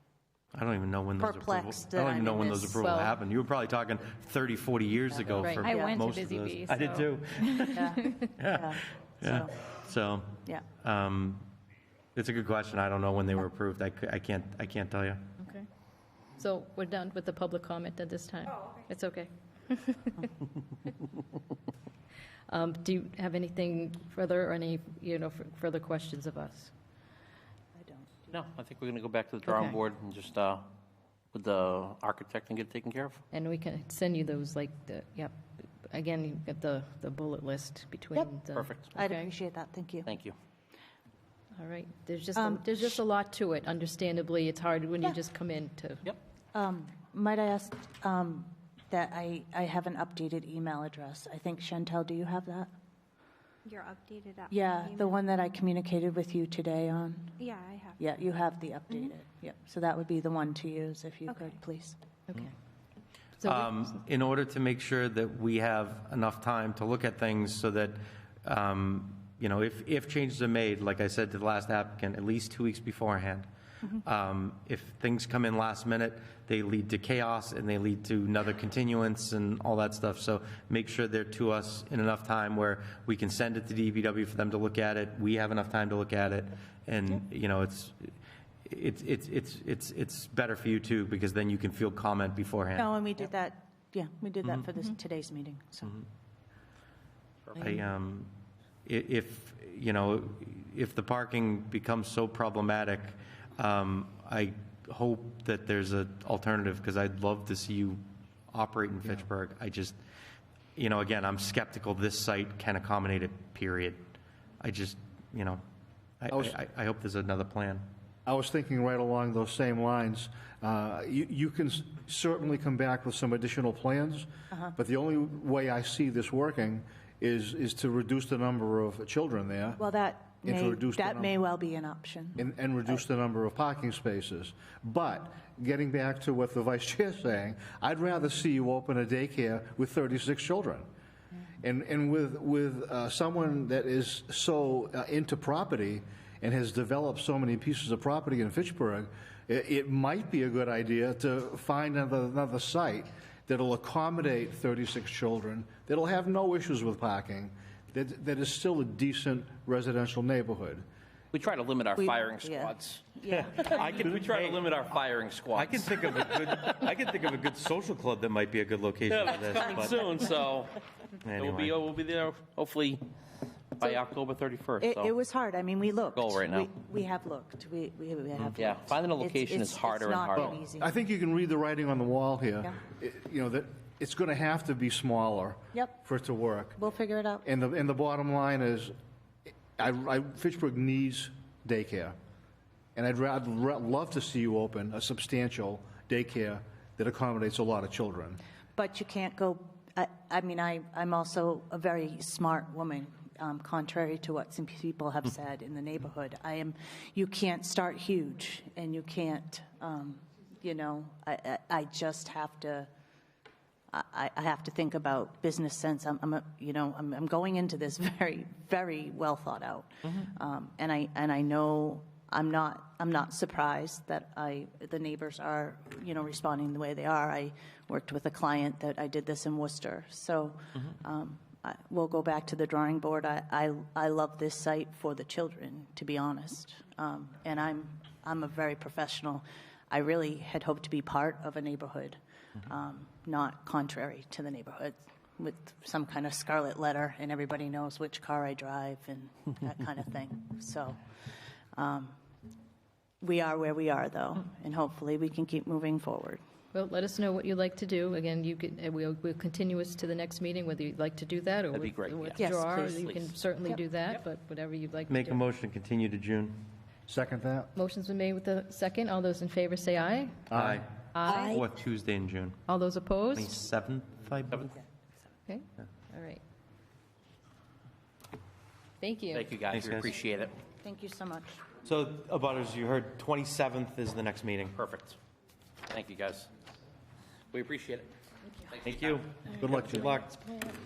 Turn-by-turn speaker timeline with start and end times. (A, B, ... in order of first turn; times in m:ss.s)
0:00.5-0:11.5 A
0:01.2-0:03.0 B
0:02.8-0:03.2 C
0:05.4-0:08.2 C
0:05.6-0:06.0 B
0:07.7-0:09.5 B
0:12.2-0:15.4 A
0:15.4-0:15.7 C
0:16.4-0:20.3 C
0:22.5-0:26.7 C
0:27.8-0:28.4 B
0:28.3-0:30.7 D
0:29.4-0:29.8 C
0:31.3-0:33.2 D
0:33.3-0:35.4 C
0:35.9-0:39.2 C
0:38.5-0:38.9 D
0:38.9-0:40.1 B
0:40.0-0:40.3 D
0:41.6-0:46.1 C
0:42.4-0:43.0 B
0:46.5-0:52.7 B
0:53.6-0:55.2 E
0:54.5-0:57.3 B
0:57.4-0:58.0 E
0:58.0-1:02.0 B
1:01.3-1:01.6 E
1:03.4-1:04.0 C
1:03.4-1:13.5 A
1:14.0-1:28.1 A
1:28.6-1:32.9 A
1:32.8-1:36.0 B
1:37.6-1:38.3 A
1:38.8-1:50.0 A
1:50.8-1:54.0 A
1:54.6-1:55.6 A
1:56.2-1:57.8 A
1:58.2-2:09.8 F
2:09.8-2:12.4 B
2:10.4-2:11.4 F
2:12.4-2:20.9 F
2:21.6-2:40.8 F
2:41.3-2:46.5 D
2:42.0-2:44.1 B
2:43.3-2:44.7 A
2:45.5-2:50.1 A
2:49.1-2:53.0 D
2:51.2-2:51.8 A
2:53.8-2:55.1 D
2:54.8-3:00.9 B
2:56.1-2:56.7 D
2:58.5-3:00.6 D
3:00.4-3:06.8 F
3:05.7-3:06.0 B
3:06.8-3:07.4 B
3:07.4-3:08.9 F
3:09.8-3:12.2 F
3:13.0-3:18.4 F
3:18.8-3:32.9 B
3:33.9-4:11.0 B
4:11.7-4:12.2 B
4:13.2-4:16.4 B
4:16.7-4:25.4 C
4:21.7-4:23.4 D
4:22.4-4:22.7 B
4:25.1-4:26.7 A
4:27.1-4:27.7 F
4:27.8-4:30.5 C
4:30.5-4:30.8 F
4:30.5-4:32.6 A
4:31.1-4:31.6 C
4:31.2-4:31.6 B
4:32.7-4:33.6 C
4:33.3-4:34.7 A
4:35.5-4:36.4 C
4:39.0-4:39.5 C
4:39.3-4:40.5 D
4:39.7-4:40.1 A
4:40.8-4:41.6 B
4:41.8-4:44.8 A
4:44.7-4:45.2 D
4:45.9-4:46.5 D
4:47.5-4:48.1 D
4:48.7-4:49.2 D
4:48.8-4:50.6 A
4:49.5-4:50.2 F